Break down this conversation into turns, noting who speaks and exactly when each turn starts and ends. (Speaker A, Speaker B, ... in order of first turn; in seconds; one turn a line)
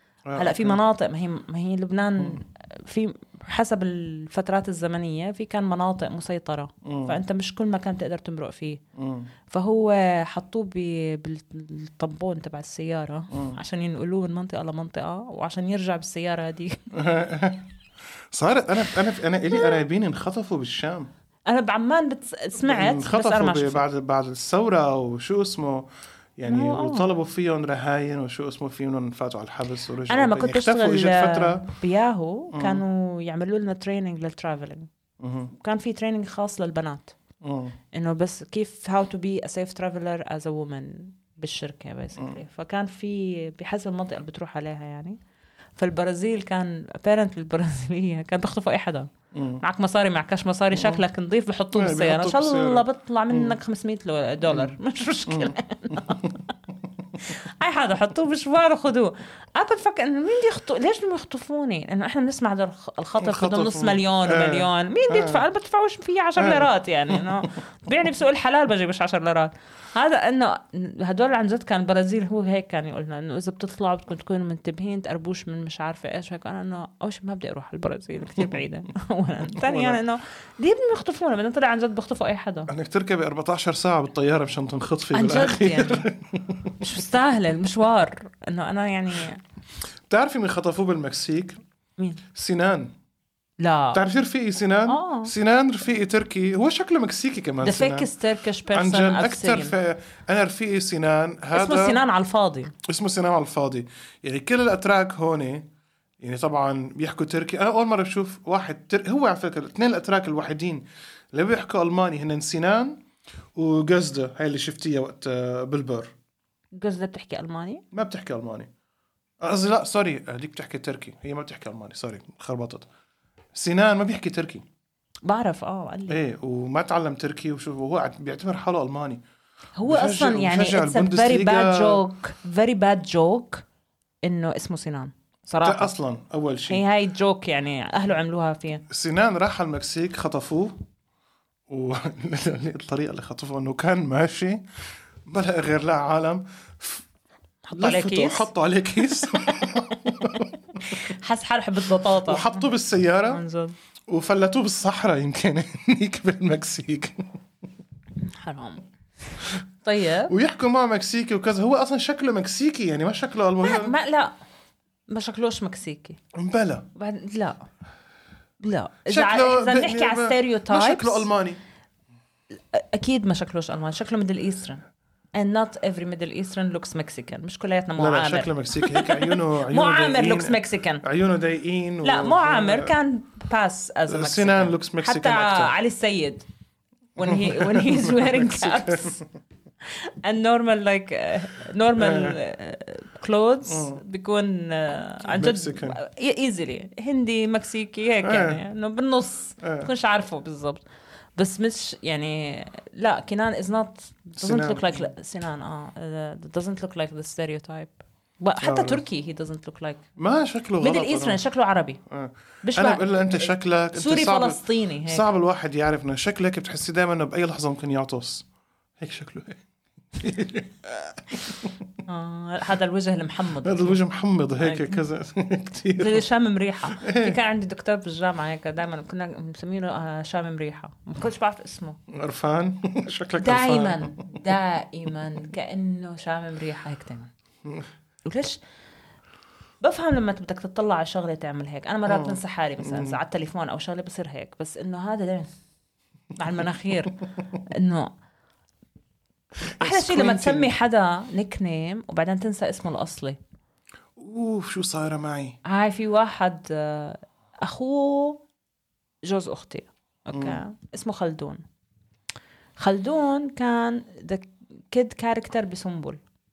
Speaker A: 0.3-0.8
Speaker B: 0.3-8.8
Speaker A: 6.8-7.2
Speaker A: 9.0-9.3
Speaker B: 9.5-16.8
Speaker A: 13.3-13.6
Speaker A: 16.9-17.7
Speaker A: 18.3-21.1
Speaker B: 21.5-23.9
Speaker A: 22.6-31.7
Speaker B: 26.5-27.1
Speaker B: 30.1-34.9
Speaker A: 32.5-32.8
Speaker A: 35.2-35.5
Speaker B: 35.5-37.2
Speaker A: 37.4-37.8
Speaker B: 37.9-45.2
Speaker B: 45.8-49.1
Speaker A: 49.3-49.6
Speaker B: 49.6-56.4
Speaker A: 50.7-51.0
Speaker A: 51.7-53.6
Speaker A: 54.5-54.8
Speaker A: 55.3-56.4
Speaker B: 57.2-82.7
Speaker A: 63.2-65.4
Speaker A: 66.4-67.5
Speaker A: 79.4-80.0
Speaker A: 82.7-86.8
Speaker B: 85.1-86.1
Speaker B: 86.8-89.4
Speaker A: 90.1-91.6
Speaker B: 92.0-92.2
Speaker A: 92.3-92.9
Speaker B: 93.6-94.0
Speaker A: 93.9-98.1
Speaker B: 94.9-95.3
Speaker B: 97.6-99.8
Speaker A: 98.7-102.0
Speaker B: 101.5-102.7
Speaker A: 102.8-105.7
Speaker A: 106.2-113.0
Speaker A: 113.5-116.1
Speaker B: 116.8-117.8
Speaker A: 117.9-118.7
Speaker A: 119.4-122.9
Speaker A: 123.5-124.7
Speaker B: 125.2-126.2
Speaker A: 126.1-129.2
Speaker B: 129.8-133.6
Speaker A: 129.9-132.0
Speaker B: 134.2-135.9
Speaker A: 135.6-136.9
Speaker B: 136.7-138.8
Speaker A: 138.9-140.8
Speaker A: 141.7-144.7
Speaker A: 145.3-147.1
Speaker B: 147.7-148.5
Speaker A: 147.8-150.6
Speaker B: 149.2-149.7
Speaker B: 150.8-152.6
Speaker A: 152.2-153.4
Speaker B: 153.3-153.8
Speaker A: 154.1-157.2
Speaker B: 158.2-158.8
Speaker B: 159.8-160.3
Speaker A: 160.3-164.0
Speaker B: 163.6-164.3
Speaker B: 165.1-166.2
Speaker A: 166.3-166.9
Speaker B: 166.9-167.7
Speaker B: 168.6-171.3
Speaker A: 169.1-171.6
Speaker B: 172.7-174.8
Speaker B: 175.3-181.0
Speaker A: 178.0-182.9
Speaker B: 182.0-186.5
Speaker A: 184.1-185.7
Speaker B: 187.2-189.2
Speaker A: 187.2-189.2
Speaker B: 189.9-200.8
Speaker A: 192.0-192.4
Speaker A: 193.7-194.0
Speaker A: 195.2-196.0
Speaker A: 198.2-198.6
Speaker A: 199.6-199.9
Speaker B: 201.4-210.1
Speaker A: 204.4-205.1
Speaker A: 208.6-209.0
Speaker A: 210.2-211.4
Speaker B: 210.8-212.0
Speaker A: 212.1-218.5
Speaker B: 212.6-215.2
Speaker A: 219.0-221.8
Speaker B: 222.1-224.0
Speaker A: 223.6-226.2
Speaker B: 224.6-225.0
Speaker B: 225.9-232.0
Speaker A: 226.9-227.4
Speaker A: 232.1-234.4
Speaker B: 233.4-237.3
Speaker B: 238.3-238.6
Speaker B: 239.8-245.5
Speaker A: 242.1-243.2
Speaker B: 246.3-248.1
Speaker A: 249.7-250.7
Speaker B: 249.8-253.4
Speaker A: 254.2-255.6
Speaker B: 255.7-258.4
Speaker B: 259.2-261.6
Speaker A: 260.3-260.6
Speaker B: 262.8-266.2